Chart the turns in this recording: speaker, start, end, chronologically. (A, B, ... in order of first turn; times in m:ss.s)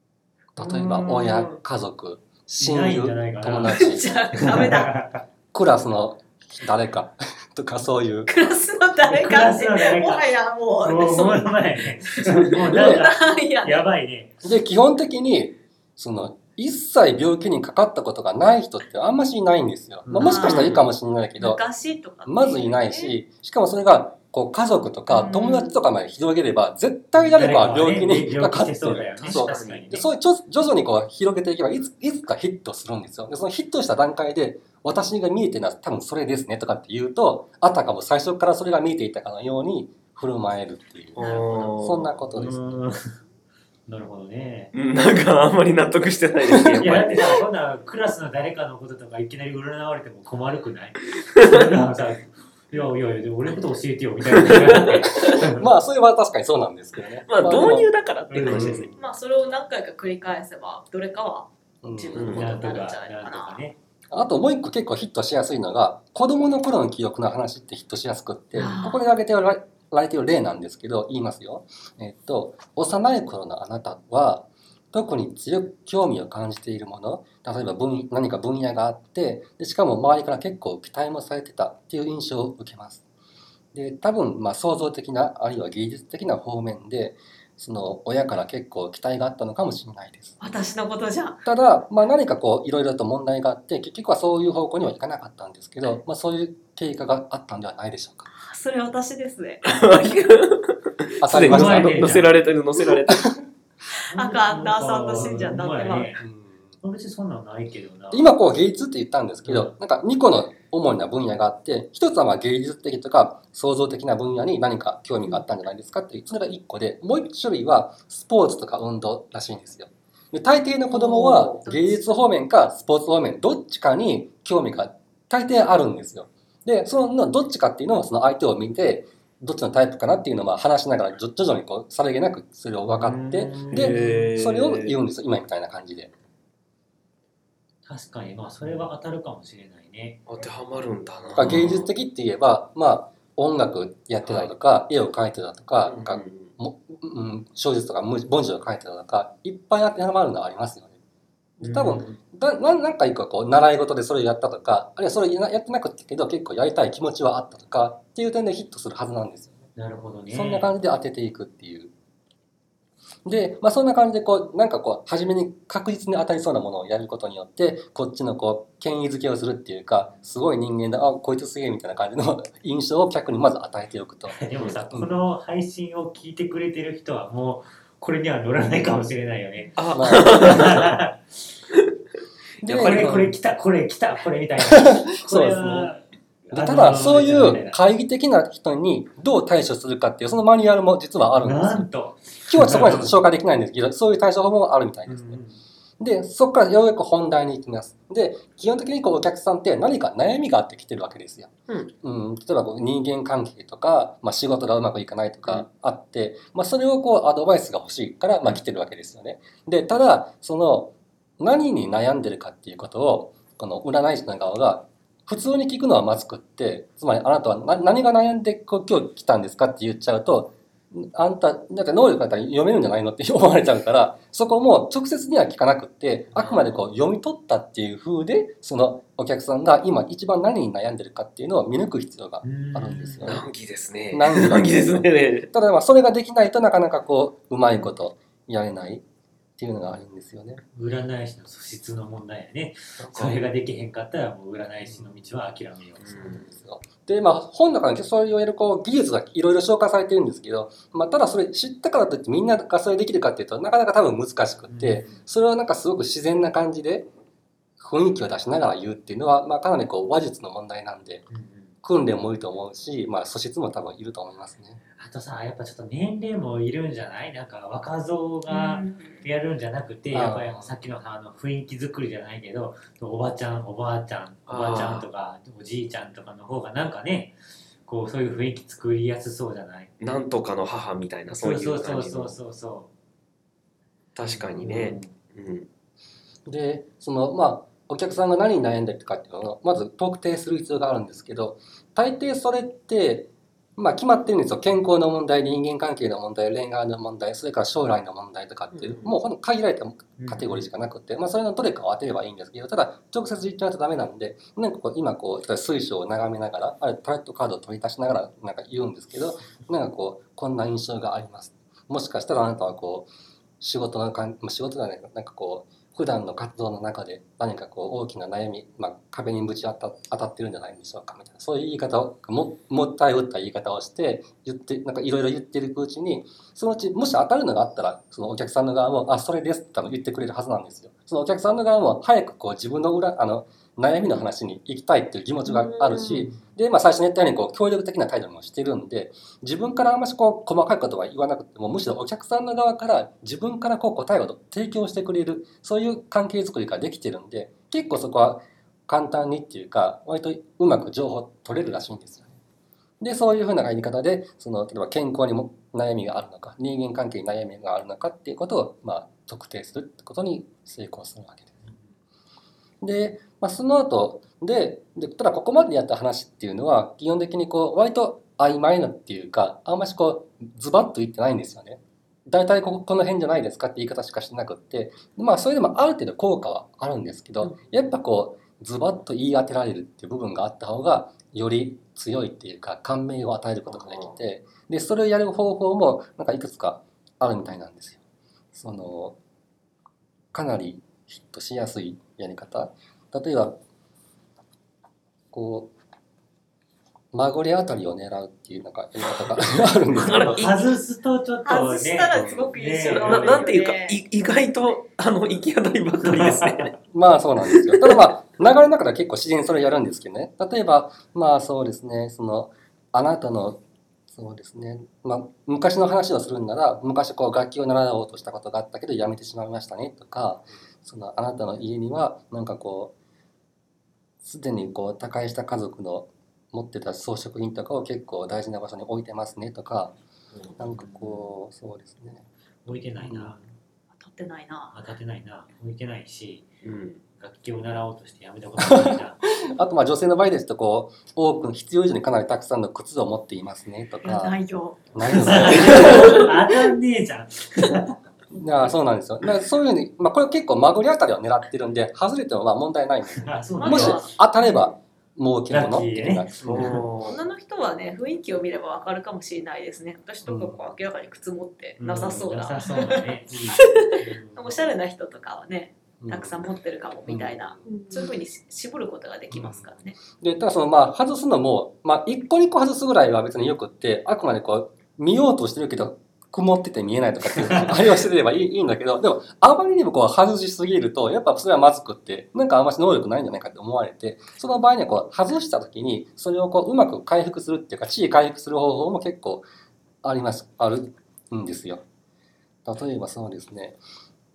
0:00.6-0:04.5 A
0:00.6-0:01.5 B
0:02.6-0:05.2 B
0:03.7-0:05.0 C
0:05.5-0:08.3 A
0:08.3-0:11.6 C
0:09.0-0:10.3 B
0:10.8-0:14.4 B
0:12.1-0:13.8 C
0:12.7-0:13.1 A
0:14.4-0:21.6 A
0:20.1-0:20.4 B
0:20.2-0:20.8 C
0:20.3-0:20.9 D
0:21.4-0:23.2 C
0:22.2-0:42.8 A
0:25.1-0:25.8 C
0:27.2-0:30.1 B
0:29.2-0:29.9 D
0:41.2-0:42.2 D
0:41.2-0:41.8 C
0:42.3-0:43.0 B
0:43.9-0:44.7 B
0:44.7-0:47.4 D
0:46.8-0:55.7 B
0:54.4-0:55.2 D
0:55.1-0:57.9 A
0:57.3-0:58.9 D
0:58.3-0:58.9 B
0:58.4-0:58.9 A
0:59.0-1:03.6 C
1:01.8-1:02.4 A
1:02.2-1:02.5 D
1:02.3-1:03.8 B
1:04.1-1:23.0 A
1:08.6-1:09.0 C
1:23.7-1:30.4 A
1:30.4-1:31.4 C
1:31.4-1:38.3 A
1:38.4-1:39.6 C
1:39.6-1:43.3 D
1:41.2-1:42.3 A
1:41.4-1:42.4 B
1:43.9-1:46.1 C
1:44.1-1:46.2 B
1:46.2-1:46.6 A
1:46.8-1:48.3 B
1:48.1-2:16.1 A
1:49.4-1:49.7 B
2:00.9-2:02.1 C
2:12.9-2:14.3 B
2:13.7-2:15.0 D
2:17.9-2:20.2 B
2:20.3-2:21.9 D
2:21.3-2:31.0 A
2:25.8-2:26.5 D
2:31.6-2:32.2 B
2:31.6-2:39.7 A
2:39.8-2:40.7 B
2:40.3-2:41.9 A
2:43.2-2:55.1 A
2:54.3-3:01.2 B
2:59.8-3:00.9 D
2:59.9-3:00.7 A
3:02.6-3:03.3 D
3:02.6-3:03.3 A
3:02.8-3:07.8 B
3:04.6-3:05.9 A
3:06.5-3:11.9 A
3:11.4-3:13.2 B
3:12.5-3:15.4 A
3:15.1-3:15.6 B
3:16.0-3:21.5 A
3:22.0-3:53.5 A
3:46.4-3:46.8 D
3:52.4-3:53.4 B
3:53.2-3:55.5 D
3:54.1-3:59.0 A
3:59.6-4:00.6 A
4:00.7-4:06.4 B
4:03.0-4:03.4 D
4:06.0-4:06.4 D
4:06.3-4:17.1 A
4:14.7-4:15.2 B
4:17.8-4:21.2 A
4:21.3-4:21.7 B
4:21.8-4:24.8 A
4:25.0-4:39.9 B
4:28.5-4:29.2 C
4:30.1-4:30.8 A
4:34.5-4:35.0 D
4:40.0-4:42.4 D
4:41.3-4:42.9 B
4:44.2-4:45.7 D
4:44.5-4:45.1 B
4:46.5-5:13.1 A
4:58.7-4:59.2 D
5:00.2-5:00.7 B
5:13.6-5:52.3 A
5:35.5-5:36.2 D
5:53.0-6:01.6 A
6:02.8-6:28.0 A
6:23.7-6:24.2 D
6:28.5-6:29.2 A
6:30.3-6:33.6 A
6:35.3-6:35.7 A
6:37.1-6:40.4 A
6:39.9-6:40.6 D
6:40.0-6:43.4 B
6:41.4-6:44.0 C
6:42.1-6:42.4 D
6:42.2-6:42.4 A
6:42.9-6:46.7 D
6:46.0-6:46.8 B
6:46.9-7:02.9 A
6:47.4-6:48.0 D
7:04.2-7:10.0 A
7:10.3-7:10.6 D
7:10.6-7:12.3 A
7:10.8-7:11.2 B
7:12.6-7:13.4 B
7:13.0-7:13.3 A
7:13.9-7:14.8 C
7:14.7-7:16.5 B
7:16.6-7:17.0 D
7:17.2-7:19.2 B
7:18.6-7:24.4 A
7:24.0-7:26.3 C
7:24.9-7:26.3 A
7:25.1-7:28.0 B
7:25.6-7:26.2 D
7:28.3-7:36.8 A
7:33.2-7:34.1 B
7:33.6-7:34.7 C
7:35.5-7:36.8 B
7:36.4-7:37.2 D
7:37.1-7:50.0 C
7:40.2-7:40.6 A
7:41.8-7:44.7 B
7:42.7-7:43.6 A
7:46.0-7:46.5 A
7:47.1-7:47.7 A
7:47.7-7:48.1 D
7:49.3-8:09.5 A
8:10.0-8:11.8 A
8:12.6-8:13.8 A